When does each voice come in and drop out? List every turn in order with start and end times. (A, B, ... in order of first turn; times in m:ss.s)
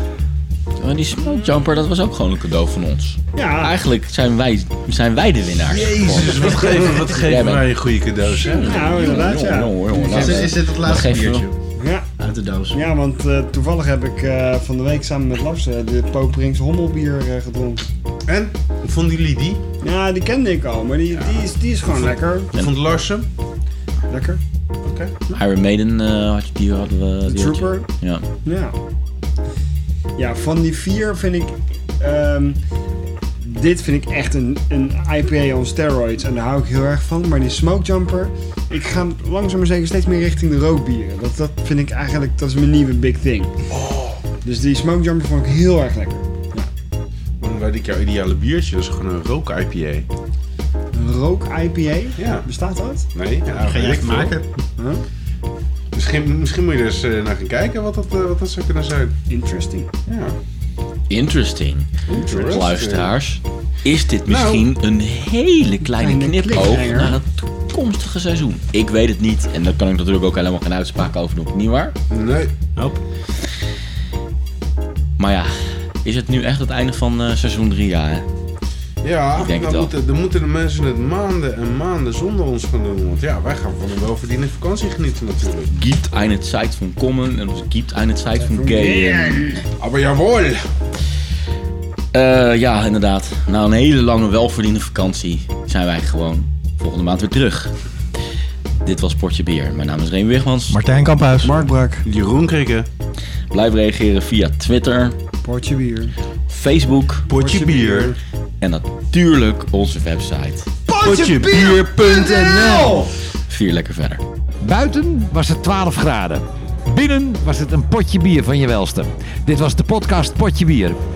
0:00.8-0:07.7 A
0:03.3-0:03.8 B
0:05.6-0:09.1 C
0:08.4-0:11.4 A
0:08.4-0:10.5 B
0:09.9-0:11.6 D
0:11.8-0:12.1 B
0:12.2-0:12.8 D
0:12.7-0:17.8 B
0:18.2-0:19.6 C
0:19.8-0:22.5 B
0:21.1-0:23.3 C
0:24.1-0:24.4 B
0:24.8-0:25.4 C
0:25.3-0:28.2 A
0:27.2-0:27.9 B
0:28.4-0:28.7 B
0:30.2-0:32.6 B
0:33.4-0:43.6 B
0:43.7-0:44.2 C
0:44.4-0:46.7 B
0:47.4-0:50.1 C
0:50.9-0:53.0 B
0:52.2-0:52.5 C
0:53.1-0:54.3 C
0:53.5-0:54.6 D
0:54.8-0:55.0 B
0:55.9-0:59.2 C
0:59.3-0:59.9 B
1:00.1-1:00.4 C
1:01.1-1:01.9 A
1:02.1-1:03.1 C
1:02.1-1:02.6 B
1:02.5-1:11.9 A
1:04.2-1:04.7 C
1:06.0-1:07.2 B
1:12.1-1:12.5 C
1:12.8-1:13.0 D
1:15.2-1:18.2 A
1:19.0-1:25.7 C
1:19.3-1:19.9 A
1:25.7-1:29.6 A
1:28.4-1:29.6 B
1:29.8-1:30.7 C
1:32.1-1:37.7 A
1:38.8-1:40.8 A
1:40.7-1:41.6 D
1:41.4-1:42.0 B
1:42.0-1:42.9 C
1:43.5-1:45.2 A
1:45.4-1:46.1 B
1:46.5-1:47.3 A
1:47.3-1:48.2 C
1:47.3-1:48.2 B
1:48.6-1:50.7 A
1:50.9-1:53.1 B
1:51.0-1:53.1 C
1:53.5-1:54.2 A
1:54.6-2:01.0 E